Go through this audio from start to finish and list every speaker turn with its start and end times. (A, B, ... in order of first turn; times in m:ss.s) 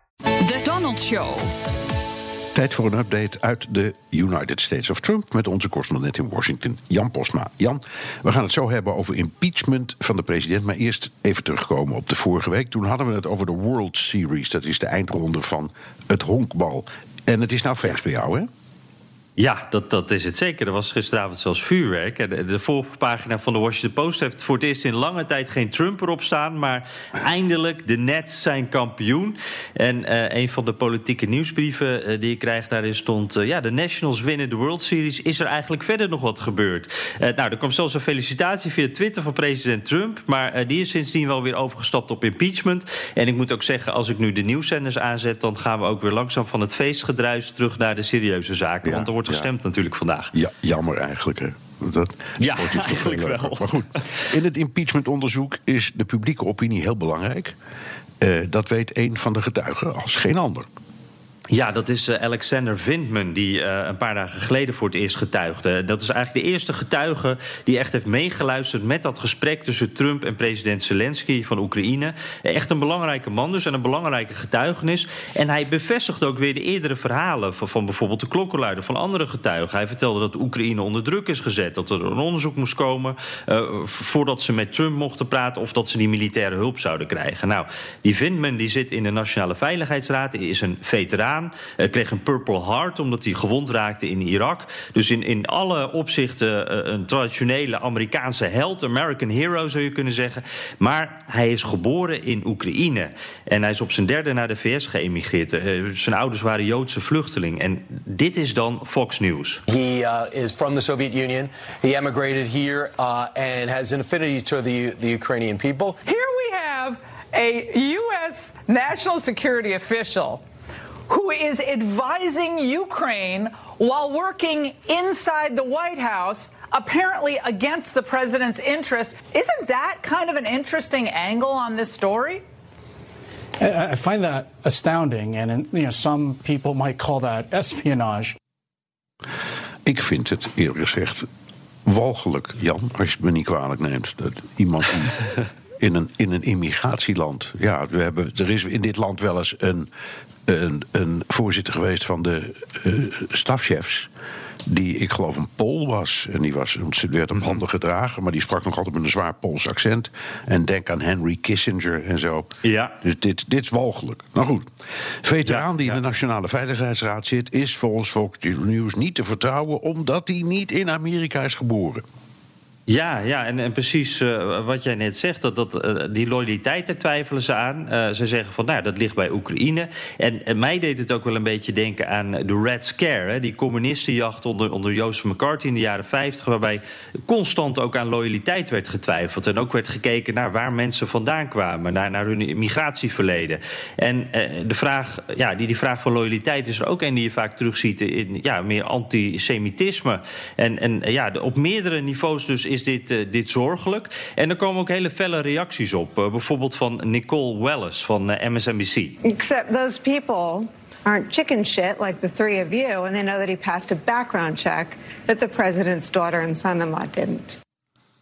0:02.5-0:18.5 A
0:19.4-0:50.3 B
0:48.8-0:49.5 A
0:50.3-0:57.5 A
0:52.4-0:54.1 B
0:58.2-1:00.7 A
1:01.5-1:49.6 B
1:49.7-1:56.0 C
1:56.1-2:00.4 D
2:01.1-2:12.4 D
2:13.6-2:18.4 E
2:19.9-2:21.3 A
2:21.9-2:25.2 A
2:25.8-2:29.9 A
2:30.5-2:34.1 A
2:34.7-2:42.5 A
2:42.6-2:43.0 B
2:43.0-2:44.6 A
2:45.2-2:52.0 A
2:45.4-2:46.0 B
2:52.9-3:29.2 B
3:29.2-3:37.6 F